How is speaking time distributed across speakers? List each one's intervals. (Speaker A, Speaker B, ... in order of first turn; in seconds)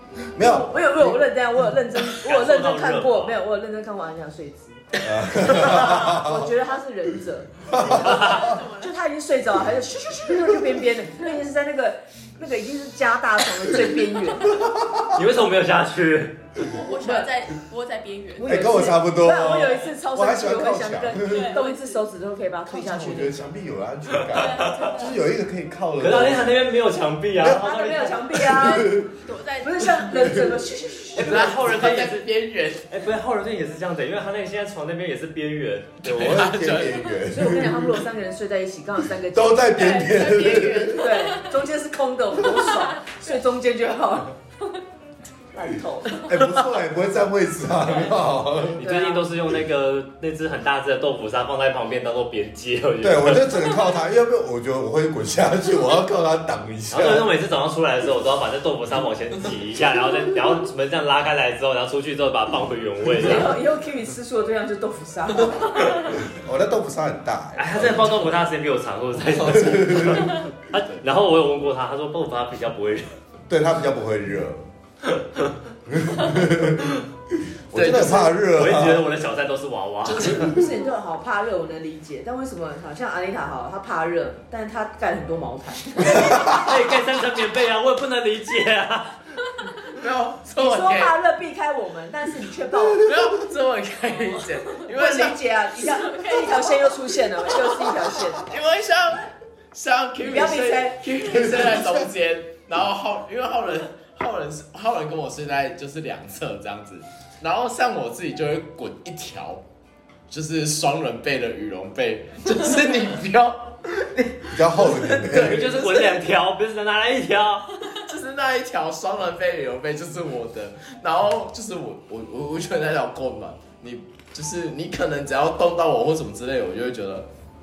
Speaker A: 0.3-14.6, 17.0-17.3, 18.4-23.4, 27.5-29.1, 29.6-31.5, 37.3-40.2, 40.8-44.3, 45.5-46.3, 48.8-49.3, 63.2-66.0, 80.2-86.6, 90.6-93.1, 94.8-98.5, 100.2-101.0
Speaker B: 0.3-1.2, 5.0-6.5, 7.7-8.4, 14.5-15.2, 18.4-21.6, 22.7-26.6, 27.4-27.7, 28.3-29.1, 36.0-38.0, 39.3-41.1, 46.1-48.8, 53.0-57.3, 66.2-68.3, 69.6-70.4, 73.5-74.7, 75.9-77.0, 77.7-79.1, 86.1-86.6, 92.8-93.4, 101.3-102.1, 114.5-115.8
Speaker C: 2.1-3.4, 8.0-8.4, 15.1-16.6, 26.0-28.4, 31.1-32.3, 32.9-36.4, 48.8-53.7, 56.9-63.6, 67.6-73.2, 78.5-80.5, 86.4-89.2, 115.3-117.8
Speaker D: 7.8-9.0, 16.7-18.8, 21.2-22.1, 24.3-25.2, 28.6-30.4, 39.7-41.6, 42.5-43.2, 95.8-97.8
Speaker E: 31.2-32.9, 36.0-37.0, 69.3-71.0, 77.7-78.4, 80.1-80.4, 89.9-91.2, 93.0-95.4, 98.4-109.6, 110.3-116.2, 117.9-127.3